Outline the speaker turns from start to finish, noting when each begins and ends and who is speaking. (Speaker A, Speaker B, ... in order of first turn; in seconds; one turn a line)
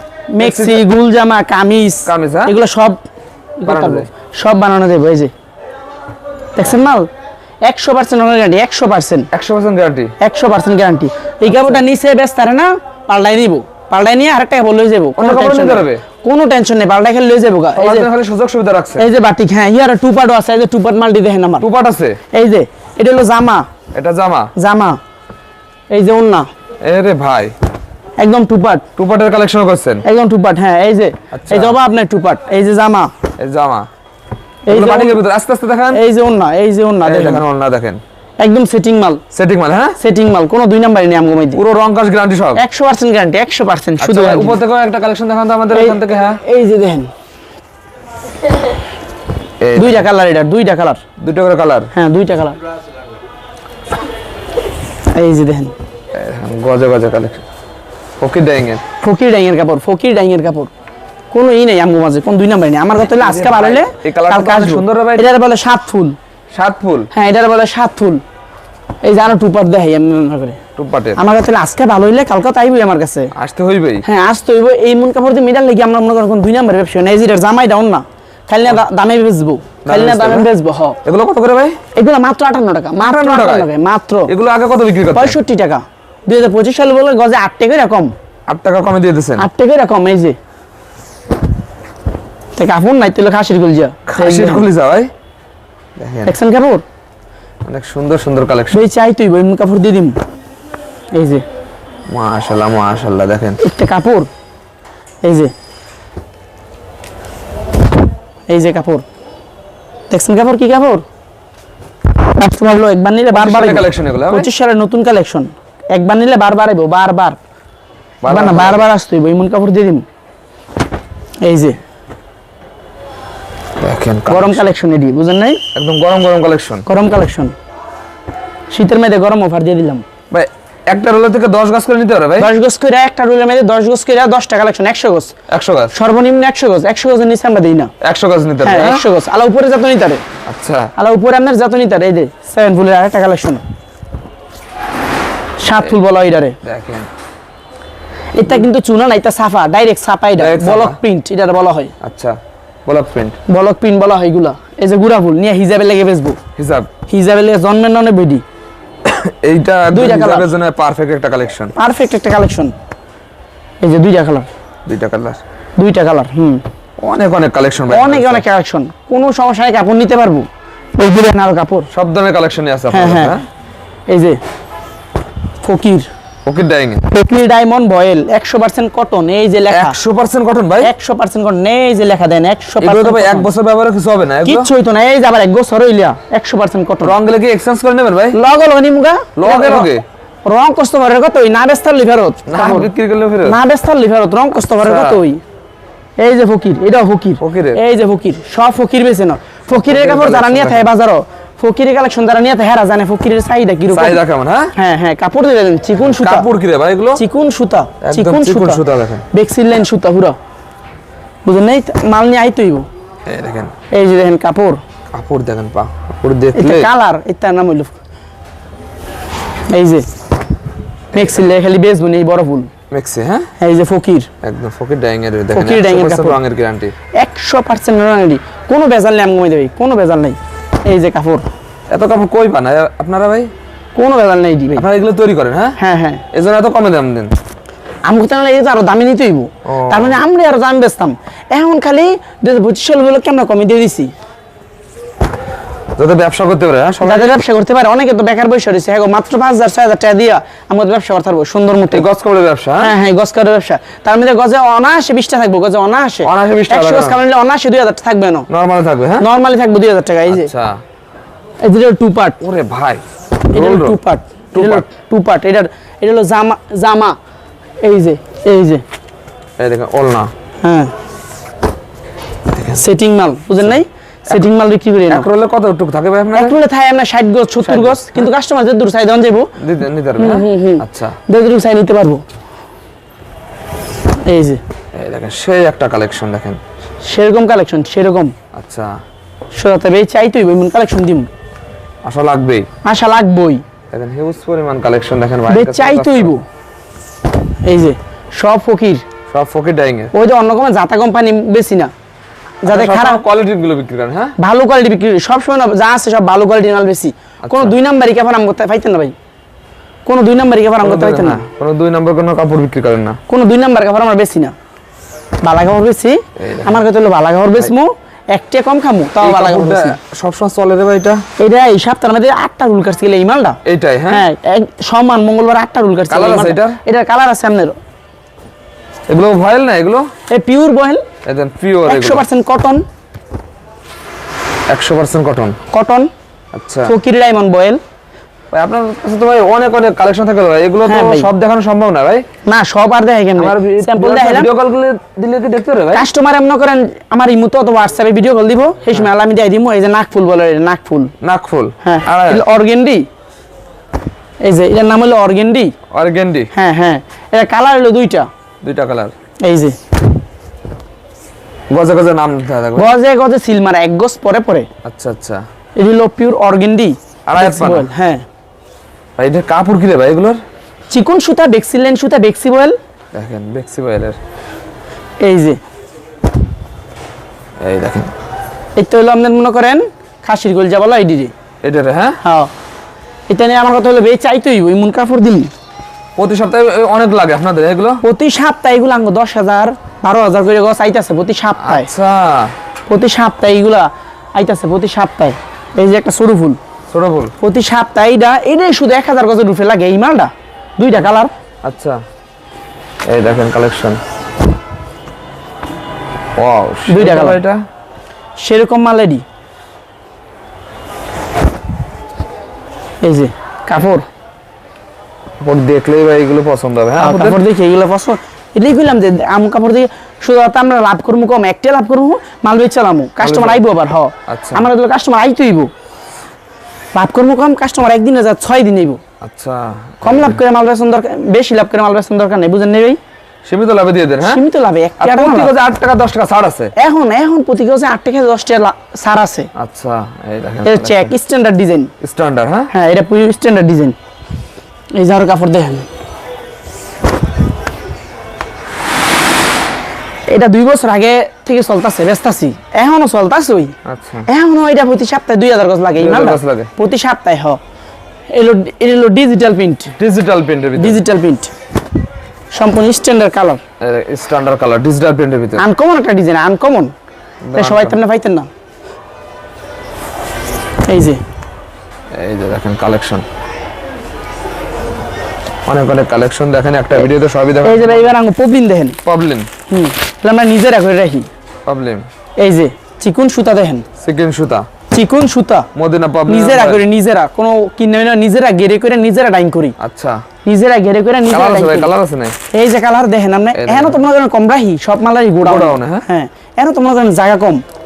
Speaker A: 0.3-3.0
Speaker B: 0.4-0.8
Speaker B: 2.1-2.5
Speaker A: 3.6-5.3
Speaker B: 3.7-4.1
Speaker A: 6.5-7.1
Speaker A: 7.7-9.3
Speaker B: 9.3-10.1
Speaker A: 10.2-18.1
Speaker B: 11.5-11.8
Speaker B: 15.2-16.0
Speaker B: 17.8-19.1
Speaker A: 19.0-21.7
Speaker B: 21.6-22.2
Speaker A: 22.3-23.7
Speaker B: 23.9-24.5
Speaker A: 24.6-25.0
Speaker A: 25.9-26.5
Speaker B: 26.8-27.5
Speaker A: 28.2-28.9
Speaker B: 29.0-30.1
Speaker A: 30.0-33.1
Speaker B: 31.3-31.8
Speaker B: 33.4-33.9
Speaker A: 34.7-35.2
Speaker B: 34.7-36.0
Speaker A: 35.9-37.4
Speaker B: 37.0-38.0
Speaker A: 38.4-39.2
Speaker B: 39.3-40.0
Speaker A: 40.0-41.6
Speaker B: 41.5-42.6
Speaker A: 42.6-44.6
Speaker B: 44.0-46.4
Speaker A: 45.7-47.1
Speaker B: 49.6-50.1
Speaker A: 49.8-51.0
Speaker B: 51.2-51.9
Speaker A: 51.9-52.6
Speaker A: 55.1-55.7
Speaker B: 56.1-57.4
Speaker B: 58.2-58.8
Speaker A: 59.0-60.7
Speaker A: 61.3-66.2
Speaker B: 63.0-65.3
Speaker B: 66.5-67.1
Speaker A: 67.1-68.2
Speaker A: 69.0-70.6
Speaker B: 70.8-71.2
Speaker A: 71.2-73.3
Speaker B: 73.3-74.0
Speaker A: 74.0-81.0
Speaker B: 79.8-80.5
Speaker B: 81.0-81.8
Speaker A: 81.9-84.3
Speaker B: 83.0-83.7
Speaker B: 84.3-85.4
Speaker A: 85.1-88.1
Speaker B: 88.5-89.5
Speaker A: 89.4-90.4
Speaker A: 92.6-94.7
Speaker B: 94.1-95.1
Speaker B: 96.0-96.3
Speaker A: 96.3-96.8
Speaker B: 97.7-98.8
Speaker A: 98.7-100.2
Speaker A: 101.2-101.4
Speaker B: 102.1-103.6
Speaker A: 103.6-104.3
Speaker A: 105.2-105.5
Speaker A: 108.5-109.0
Speaker A: 110.1-111.0
Speaker A: 112.3-117.4
Speaker B: 113.3-114.5
Speaker B: 118.2-118.8
Speaker A: 118.3-120.0
Speaker A: 121.4-121.8
Speaker B: 123.8-124.7
Speaker A: 124.3-125.6
Speaker B: 125.7-126.9
Speaker A: 126.9-127.5
Speaker A: 128.7-130.0
Speaker B: 130.3-132.5
Speaker A: 132.4-135.3
Speaker B: 135.5-135.9
Speaker A: 135.9-137.9
Speaker B: 138.0-139.0
Speaker A: 138.6-140.2
Speaker B: 140.5-140.9
Speaker A: 141.0-143.6
Speaker A: 145.6-146.6
Speaker B: 146.6-147.1
Speaker A: 148.3-151.9
Speaker B: 150.4-151.0
Speaker B: 152.0-153.4
Speaker A: 153.5-156.4
Speaker B: 156.6-156.9
Speaker A: 157.1-158.4
Speaker B: 159.0-161.7
Speaker A: 159.9-160.5
Speaker A: 161.8-162.7
Speaker A: 163.8-164.5
Speaker B: 164.9-165.4
Speaker A: 165.8-166.6
Speaker B: 167.0-168.4
Speaker A: 167.9-171.9
Speaker B: 171.9-173.4
Speaker A: 172.9-173.4
Speaker A: 174.1-174.4
Speaker A: 175.6-176.1
Speaker B: 176.5-177.1
Speaker A: 177.1-180.0
Speaker B: 179.7-180.9
Speaker A: 180.8-183.5
Speaker B: 182.8-184.7
Speaker A: 184.4-187.2
Speaker B: 187.0-188.4
Speaker A: 188.3-189.9
Speaker B: 189.4-190.0
Speaker A: 190.5-192.9
Speaker B: 192.5-193.6
Speaker A: 193.4-195.4
Speaker B: 194.8-195.2
Speaker A: 196.2-204.2
Speaker B: 197.4-197.8
Speaker B: 199.7-200.9
Speaker B: 203.9-204.7
Speaker A: 204.8-206.5
Speaker B: 206.0-207.2
Speaker A: 207.2-210.4
Speaker B: 208.0-209.2
Speaker A: 211.4-212.9
Speaker B: 213.3-213.7
Speaker A: 213.9-214.8
Speaker B: 215.1-216.9
Speaker A: 216.5-217.9
Speaker A: 219.7-220.1
Speaker A: 221.1-222.7
Speaker B: 222.9-223.5
Speaker A: 223.6-224.3
Speaker B: 224.4-226.9
Speaker A: 225.5-226.4
Speaker A: 227.2-231.5
Speaker B: 231.9-233.5
Speaker A: 233.9-234.9
Speaker B: 234.8-235.8
Speaker A: 235.8-236.2
Speaker B: 236.3-237.3
Speaker A: 238.1-244.1
Speaker B: 239.7-240.2
Speaker B: 246.0-247.3
Speaker A: 247.0-252.1
Speaker B: 251.9-252.9
Speaker A: 252.8-258.5
Speaker B: 256.2-257.2
Speaker B: 258.5-259.3
Speaker A: 259.2-260.5
Speaker B: 260.3-260.8
Speaker A: 261.6-262.4
Speaker B: 262.4-264.0
Speaker A: 263.5-267.2
Speaker B: 264.5-264.9
Speaker A: 267.8-268.8
Speaker B: 269.6-270.3
Speaker A: 270.6-270.9
Speaker B: 272.5-272.8
Speaker A: 272.8-275.3
Speaker B: 275.1-276.6
Speaker A: 276.4-279.5
Speaker B: 277.6-278.3
Speaker B: 279.6-281.2
Speaker A: 280.2-282.2
Speaker A: 284.2-284.6
Speaker B: 284.9-286.6
Speaker A: 287.1-288.3
Speaker B: 288.5-288.9
Speaker A: 289.5-291.3
Speaker B: 292.0-292.7
Speaker A: 292.9-293.6
Speaker B: 293.9-296.3
Speaker A: 295.5-296.4
Speaker A: 297.6-299.1
Speaker B: 299.3-300.1
Speaker A: 300.1-301.9
Speaker A: 302.6-303.2
Speaker B: 302.6-304.4
Speaker A: 304.4-309.1
Speaker B: 307.4-307.8
Speaker A: 310.1-311.5
Speaker B: 310.8-313.2
Speaker A: 313.3-314.5
Speaker A: 315.4-320.0
Speaker B: 316.4-316.8
Speaker B: 319.2-321.2
Speaker A: 321.4-323.6
Speaker B: 323.6-324.2
Speaker A: 324.1-327.8
Speaker B: 326.1-326.8
Speaker B: 329.1-330.1
Speaker A: 330.3-331.1
Speaker B: 331.2-332.2
Speaker A: 331.9-332.8
Speaker B: 334.7-335.6
Speaker A: 335.7-336.1
Speaker B: 336.5-336.9
Speaker A: 336.9-337.8
Speaker B: 338.5-342.3
Speaker A: 340.9-341.3
Speaker A: 342.5-344.5
Speaker B: 343.4-346.1
Speaker A: 345.9-351.1
Speaker B: 351.2-352.4
Speaker A: 351.8-353.1
Speaker A: 354.4-355.7
Speaker B: 355.9-356.5
Speaker A: 356.5-358.3
Speaker B: 358.6-359.1
Speaker A: 359.4-359.8
Speaker B: 361.7-362.9
Speaker A: 362.8-364.7
Speaker B: 364.8-365.4
Speaker A: 365.8-368.2
Speaker B: 367.3-367.9
Speaker B: 369.2-370.4
Speaker A: 370.9-372.8
Speaker B: 373.1-374.2
Speaker A: 375.2-375.6
Speaker B: 377.6-378.1
Speaker A: 378.8-381.3
Speaker B: 381.6-382.2
Speaker A: 382.2-382.5
Speaker A: 383.3-385.5
Speaker B: 386.2-388.0
Speaker A: 388.0-391.9
Speaker B: 391.6-392.6
Speaker A: 392.9-396.6
Speaker B: 396.9-397.3
Speaker A: 397.4-401.3
Speaker B: 401.6-402.0
Speaker B: 403.1-404.0
Speaker B: 406.4-407.6
Speaker A: 406.9-407.4
Speaker A: 408.4-409.2
Speaker A: 413.0-414.1
Speaker B: 415.4-417.4
Speaker A: 417.0-425.7
Speaker B: 423.2-423.6
Speaker B: 424.3-424.7
Speaker A: 426.9-429.0
Speaker B: 429.2-430.4
Speaker A: 430.0-433.0
Speaker B: 433.5-434.4
Speaker A: 434.2-435.5
Speaker B: 435.0-436.7
Speaker A: 436.8-439.5
Speaker B: 439.6-441.1
Speaker A: 440.6-441.9
Speaker B: 442.0-442.7
Speaker A: 442.7-444.0
Speaker A: 444.9-445.9
Speaker A: 450.3-453.8
Speaker B: 453.9-454.3
Speaker A: 454.3-457.6
Speaker B: 456.0-456.7
Speaker A: 458.3-460.0
Speaker B: 460.0-461.0
Speaker A: 460.8-461.5
Speaker A: 462.5-463.6
Speaker B: 463.8-465.6
Speaker A: 465.6-466.9
Speaker B: 467.4-468.0
Speaker A: 467.6-468.5
Speaker A: 470.9-471.2
Speaker B: 472.1-473.2
Speaker B: 475.7-478.1
Speaker A: 477.6-479.0
Speaker B: 479.1-479.5
Speaker A: 479.7-481.3
Speaker B: 481.7-482.1
Speaker A: 482.4-483.9
Speaker B: 484.0-484.7
Speaker A: 484.9-485.7
Speaker B: 485.8-486.9
Speaker A: 486.3-489.8
Speaker B: 489.8-490.2
Speaker A: 490.5-491.9
Speaker B: 491.3-492.4
Speaker A: 492.5-497.6
Speaker B: 493.6-494.0
Speaker B: 495.4-496.1